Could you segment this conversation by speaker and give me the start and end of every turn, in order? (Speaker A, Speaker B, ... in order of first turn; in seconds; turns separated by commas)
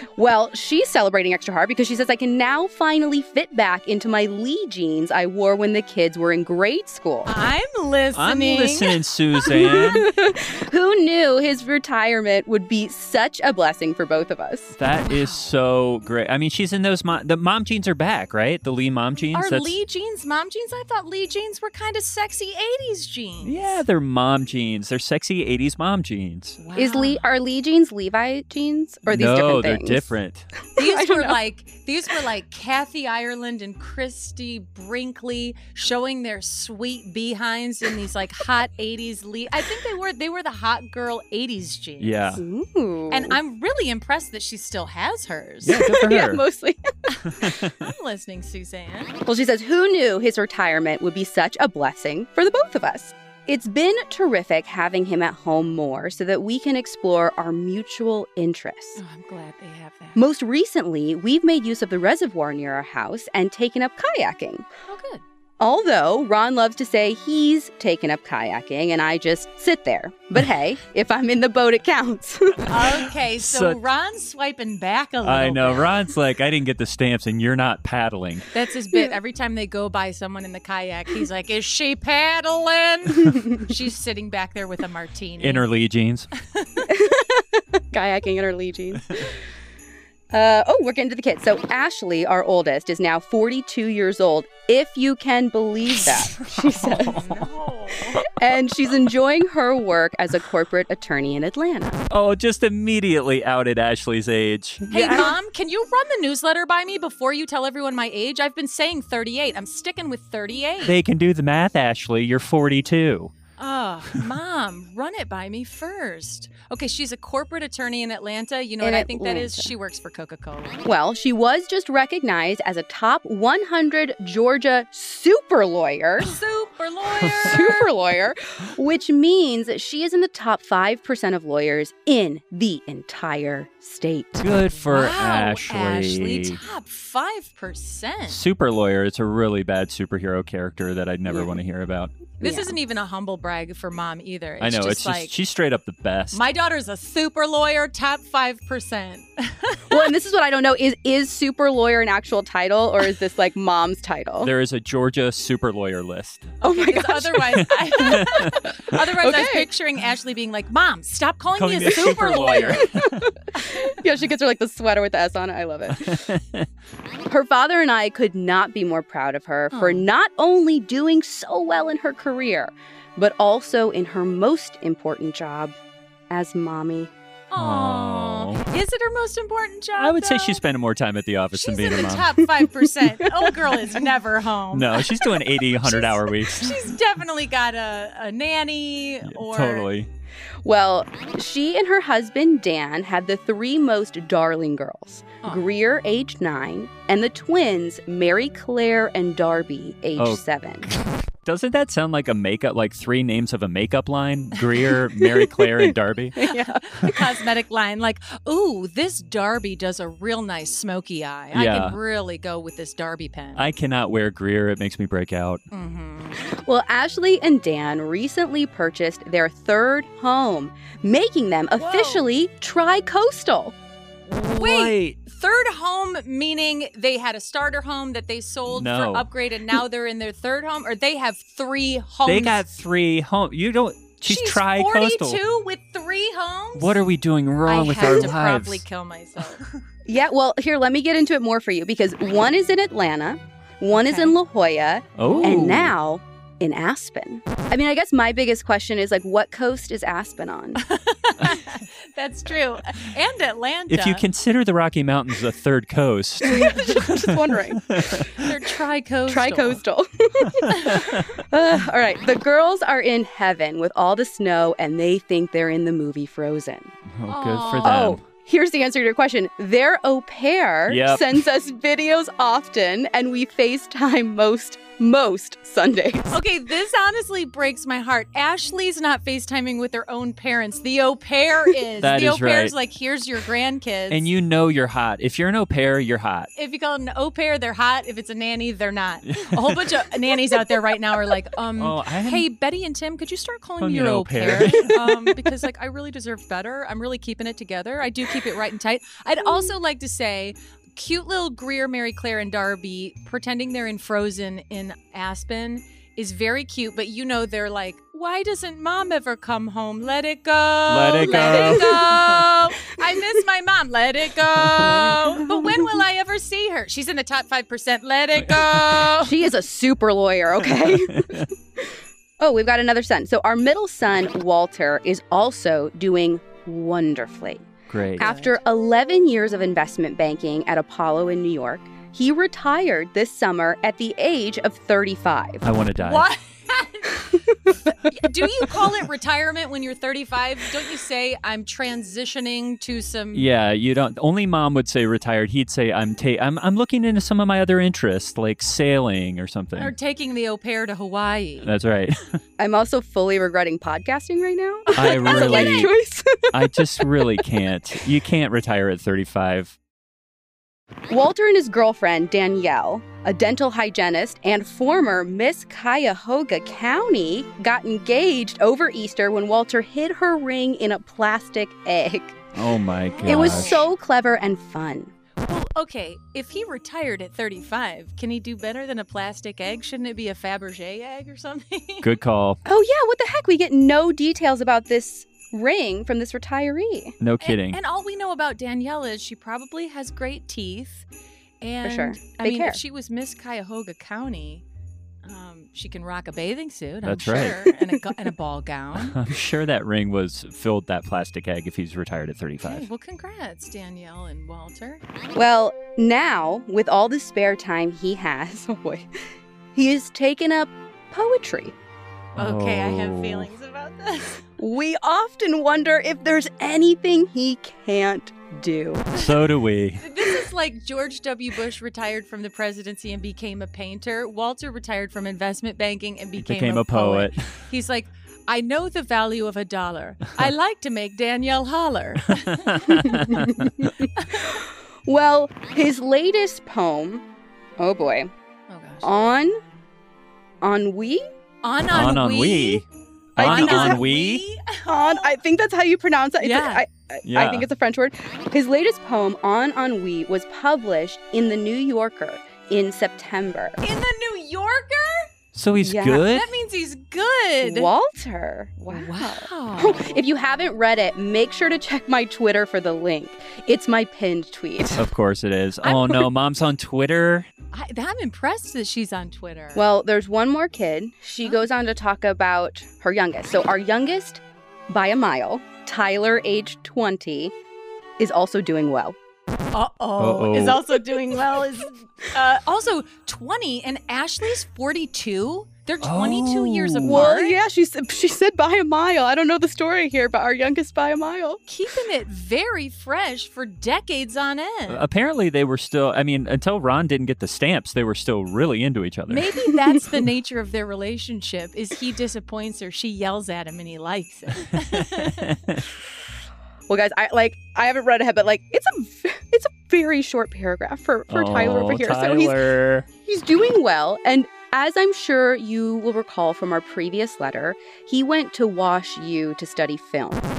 Speaker A: 0.1-7.3, Speaker B: 7.2-8.9, Speaker C: 8.2-10.1, Speaker A: 9.3-14.7, Speaker C: 14.7-19.8, Speaker B: 15.1-15.5, Speaker B: 19.3-23.8, Speaker C: 23.4-26.6, Speaker B: 26.6-27.2, Speaker A: 26.8-30.1, Speaker C: 29.1-30.5, Speaker B: 30.8-42.4, Speaker A: 30.8-31.4, Speaker C: 42.0-42.4, Speaker A: 42.4-43.4, Speaker B: 43.1-45.8, Speaker C: 45.6-46.4, Speaker A: 45.6-46.8, Speaker B: 47.1-49.2, Speaker C: 47.3-47.8, Speaker A: 49.2-59.0, Speaker B: 59.0-60.2, Speaker A: 60.1-64.7, Speaker B: 64.8-65.2, Speaker A: 65.6-73.1, Speaker B: 72.7-76.0, Speaker C: 73.4-73.8, Speaker C: 75.2-78.5, Speaker B: 78.5-85.6, Speaker C: 85.4-86.3, Speaker B: 86.5-86.9, Speaker A: 86.9-89.3, Speaker A: 90.3-97.2, Speaker C: 96.0-97.4, Speaker B: 96.9-98.2, Speaker A: 98.3-102.0, Speaker C: 102.1-105.3, Speaker B: 104.9-111.0, Speaker C: 110.8-113.3, Speaker B: 113.6-120.8, Speaker A: 118.8-119.7, Speaker A: 120.8-126.4, Speaker B: 126.2-127.9, Speaker C: 127.2-127.6, Speaker A: 127.4-134.5, Speaker C: 134.4-136.6, Speaker B: 134.8-138.4, Speaker C: 138.3-142.3, Speaker A: 141.2-141.6, Speaker B: 142.4-145.3, Speaker A: 142.4-142.8, Speaker C: 144.6-146.4, Speaker B: 146.3-150.1, Speaker A: 149.9-154.5, Speaker C: 154.4-156.5, Speaker A: 156.6-159.7, Speaker B: 156.6-162.9, Speaker C: 157.6-158.6, Speaker C: 161.5-163.1, Speaker A: 161.9-166.4, Speaker C: 166.0-166.6, Speaker A: 167.3-175.8, Speaker B: 169.7-170.1, Speaker A: 176.3-177.1, Speaker B: 177.5-180.6, Speaker C: 177.6-178.6, Speaker C: 180.0-182.4, Speaker B: 181.5-189.9, Speaker C: 184.7-186.8, Speaker C: 189.2-190.1, Speaker A: 190.6-200.9, Speaker C: 200.2-206.4, Speaker A: 205.2-207.3, Speaker B: 206.4-213.7, Speaker C: 211.5-212.0, Speaker C: 213.6-215.6, Speaker B: 215.7-216.4, Speaker A: 216.6-223.8, Speaker B: 221.8-222.2, Speaker C: 224.3-225.2, Speaker B: 224.4-232.6, Speaker C: 228.7-229.3, Speaker C: 232.2-235.4, Speaker B: 234.2-237.0, Speaker C: 236.8-238.8, Speaker B: 237.7-239.7, Speaker A: 240.1-250.8, Speaker B: 243.9-244.3, Speaker C: 245.2-245.9, Speaker B: 245.2-245.7, Speaker B: 250.8-254.2, Speaker C: 253.9-258.4, Speaker A: 256.4-258.2, Speaker B: 258.4-259.8, Speaker A: 259.3-266.9, Speaker C: 260.5-261.3, Speaker B: 260.8-261.0, Speaker C: 267.1-268.2, Speaker B: 267.3-268.1, Speaker A: 267.7-276.4, Speaker C: 270.9-271.4, Speaker B: 276.3-284.3, Speaker C: 282.0-282.7, Speaker C: 284.1-286.5, Speaker B: 286.5-319.5, Speaker C: 289.3-289.9, Speaker C: 291.8-292.5, Speaker C: 293.8-295.2, Speaker C: 310.9-312.4, Speaker A: 311.2-312.2, Speaker C: 314.6-315.1, Speaker A: 314.8-315.9, Speaker C: 318.4-319.1, Speaker A: 319.2-321.5, Speaker C: 320.6-321.5, Speaker A: 322.4-327.6, Speaker C: 327.9-328.3, Speaker A: 328.1-335.6, Speaker B: 328.2-328.6, Speaker C: 335.6-336.3, Speaker B: 336.0-337.3, Speaker B: 338.1-343.5, Speaker C: 343.3-349.9, Speaker B: 349.8-351.7, Speaker C: 351.6-352.4, Speaker A: 352.6-357.4, Speaker C: 354.9-356.0, Speaker B: 355.0-355.9, Speaker C: 356.5-359.8, Speaker A: 361.1-372.4, Speaker C: 372.5-373.9, Speaker B: 373.1-373.9, Speaker A: 373.2-375.1, Speaker B: 375.5-382.1, Speaker C: 382.0-382.6, Speaker A: 382.6-387.1, Speaker C: 387.2-387.8, Speaker B: 387.4-391.1, Speaker B: 391.6-394.6, Speaker A: 391.8-392.8, Speaker B: 395.2-399.2, Speaker C: 397.0-397.7, Speaker C: 399.0-402.9, Speaker B: 402.6-405.0, Speaker A: 405.4-409.1, Speaker A: 409.7-411.7, Speaker B: 412.4-414.4, Speaker C: 412.4-413.5, Speaker A: 414.6-419.2, Speaker C: 419.1-420.0, Speaker B: 420.0-433.5, Speaker C: 426.4-427.4, Speaker C: 432.3-433.9, Speaker A: 433.0-437.2, Speaker B: 434.1-434.6, Speaker A: 437.8-438.3, Speaker B: 438.7-439.1, Speaker A: 439.0-439.5, Speaker A: 440.6-441.2, Speaker B: 441.6-442.8, Speaker C: 441.9-442.9, Speaker C: 443.4-444.4, Speaker B: 443.4-445.4, Speaker A: 443.4-444.0, Speaker A: 444.9-453.8, Speaker B: 446.4-446.9, Speaker C: 447.2-447.7, Speaker B: 453.8-455.3, Speaker C: 455.5-456.5, Speaker A: 455.8-456.3, Speaker B: 456.2-457.9, Speaker A: 457.6-465.1, Speaker B: 458.8-460.2, Speaker C: 465.0-467.5, Speaker A: 465.8-466.2, Speaker B: 467.7-469.9, Speaker A: 469.8-477.5, Speaker A: 478.2-479.1, Speaker B: 479.7-487.6, Speaker C: 480.2-481.0, Speaker C: 486.0-487.3, Speaker A: 487.0-491.6, Speaker B: 491.6-495.1, Speaker C: 494.9-499.5, Speaker B: 499.3-505.5, Speaker C: 504.9-505.8, Speaker A: 506.9-512.6, Speaker C: 511.3-513.0, Speaker A: 513.2-520.5